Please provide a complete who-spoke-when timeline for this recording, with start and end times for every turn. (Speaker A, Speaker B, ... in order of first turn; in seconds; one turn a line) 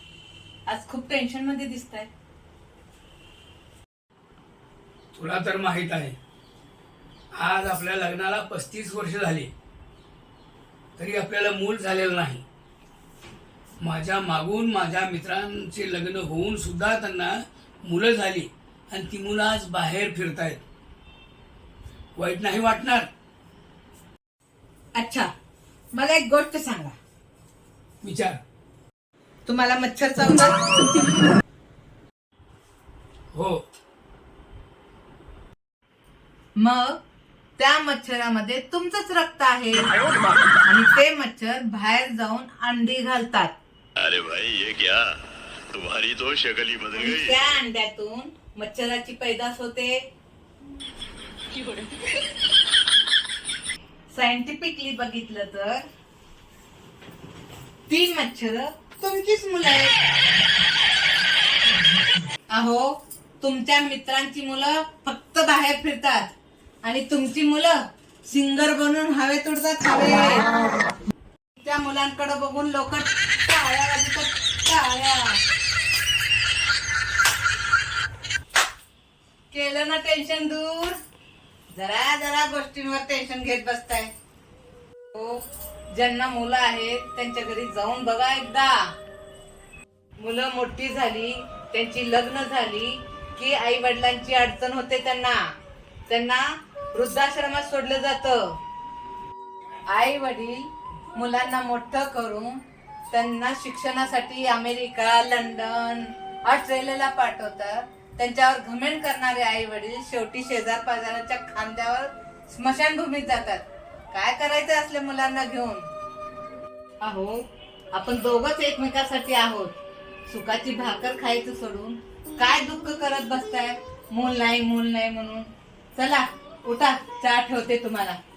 Speaker A: 0.7-2.1
Speaker B: 5.1-6.2
Speaker B: 7.3-9.5
Speaker B: 11.0-12.4
Speaker B: 13.8-20.6
Speaker B: 22.2-23.1
Speaker A: 24.9-25.3
Speaker A: 25.9-26.9
Speaker B: 28.0-28.4
Speaker A: 29.4-31.2
Speaker B: 33.3-33.6
Speaker A: 36.5-37.0
Speaker A: 37.6-39.9
Speaker A: 40.6-43.5
Speaker C: 44.0-47.3
Speaker A: 46.9-50.0
Speaker A: 54.1-55.9
Speaker A: 57.9-59.9
Speaker A: 62.5-66.3
Speaker A: 66.8-70.5
Speaker A: 71.6-75.4
Speaker A: 79.5-81.0
Speaker A: 81.7-84.1
Speaker A: 85.1-88.9
Speaker A: 90.2-95.5
Speaker A: 96.1-98.6
Speaker A: 99.9-115.8
Speaker A: 117.0-128.2